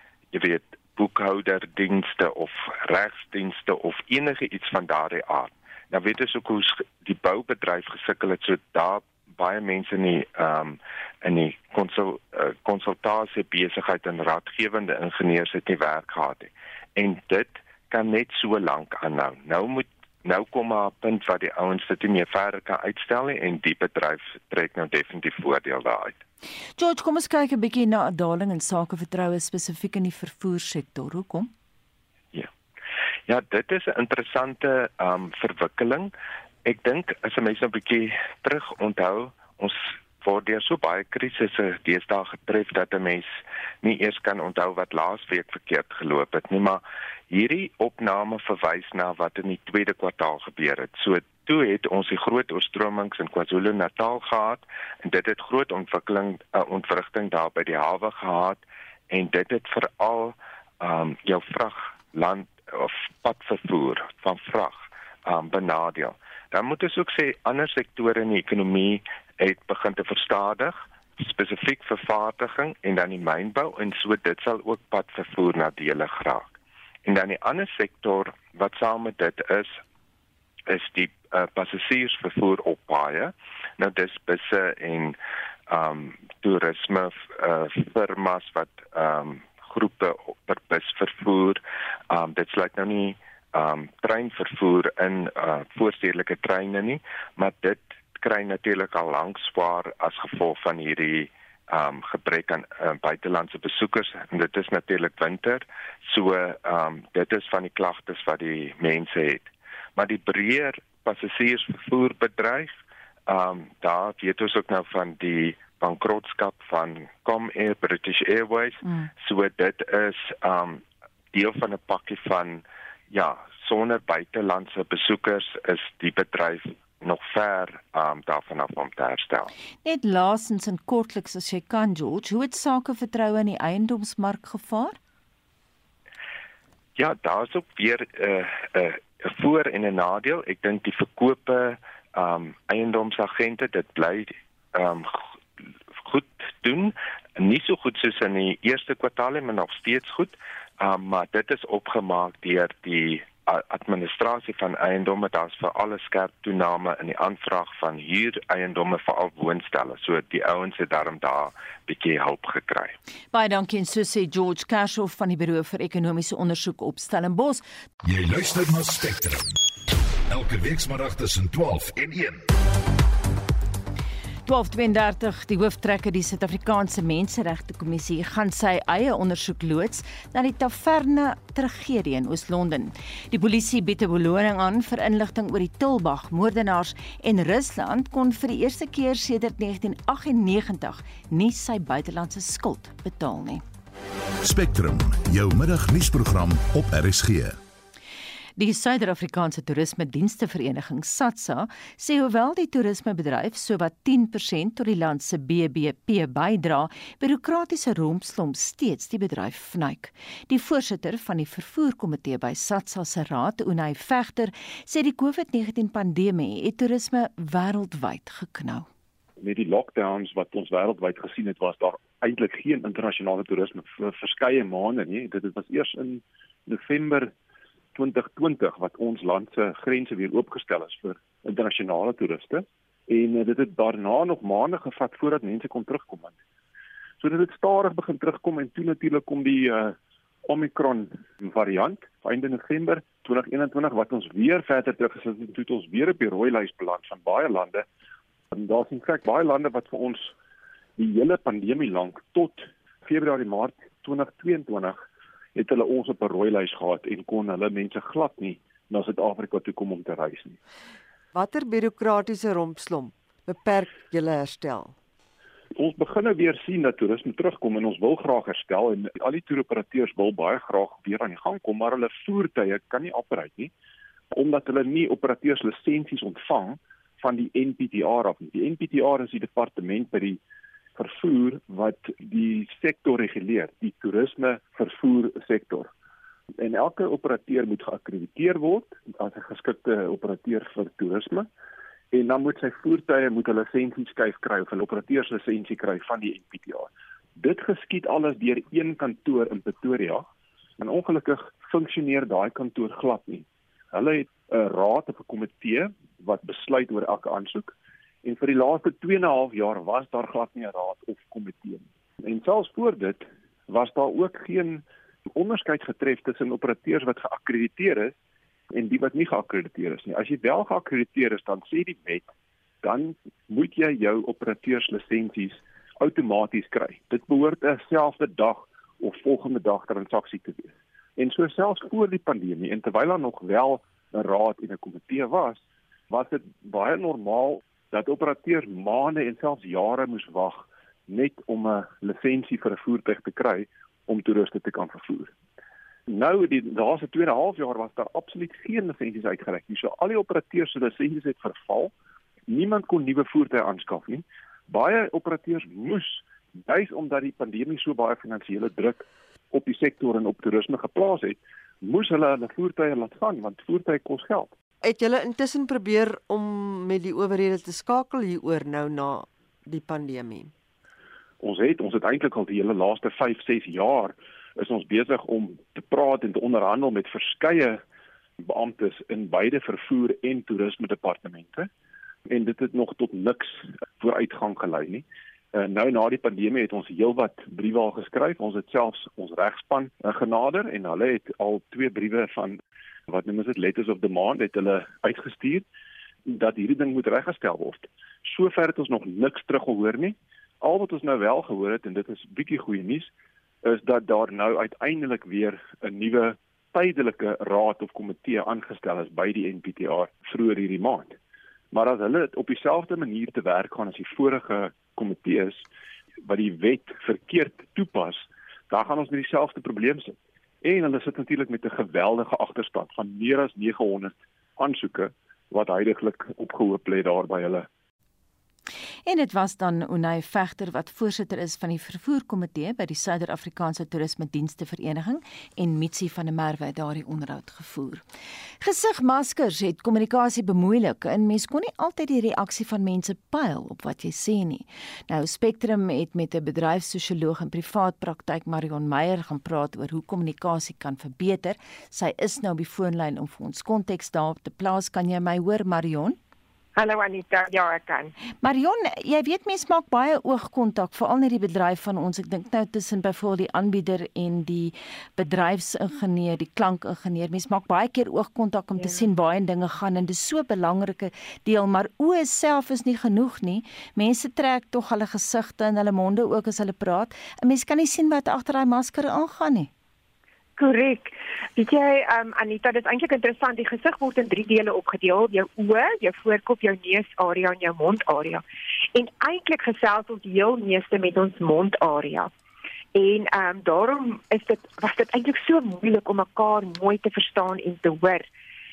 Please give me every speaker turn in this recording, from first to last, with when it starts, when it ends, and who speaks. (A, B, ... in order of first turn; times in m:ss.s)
0:00.3-0:26.2 A
0:26.8-0:31.5 B
0:33.3-0:36.1 A
0:36.6-1:16.5 A
1:17.1-1:19.8 A
1:20.7-1:25.2 A
1:25.7-1:52.7 A
1:53.3-2:00.8 A
2:01.3-2:09.5 A
2:09.8-2:15.0 B
2:17.0-2:25.2 A
2:26.0-2:43.0 A
2:43.3-2:47.6 B
2:48.0-2:49.5 C
2:50.3-2:52.5 C
2:54.5-3:13.6 B
3:14.4-3:17.6 C
3:18.6-3:38.9 B
3:39.4-3:47.3 D
3:48.0-3:56.4 D
3:57.2-4:07.9 D
4:08.5-4:10.3 D
4:11.0-4:15.0 D
4:15.6-4:20.6 D
4:21.3-4:25.0 E
4:25.8-4:33.7 D
4:34.3-4:40.4 D
4:41.0-4:45.9 D
4:46.6-4:51.5 D
4:52.1-5:00.3 D
5:00.8-5:18.2 D
5:18.7-5:22.3 D
5:22.8-5:45.3 D
5:46.1-5:51.9 D
5:52.5-6:04.5 D
6:04.8-6:10.5 E
6:11.4-6:17.8 D
6:18.4-6:21.7 D
6:22.3-6:35.7 D
6:36.3-6:43.1 D
6:43.6-6:51.2 D
6:51.7-6:55.7 D
6:56.2-7:07.7 D
7:09.1-7:18.0 B
7:18.6-7:36.2 B
7:36.8-7:38.1 F
7:38.3-7:59.7 B
8:00.6-8:08.4 F
8:08.9-8:12.3 F
8:13.0-8:18.3 F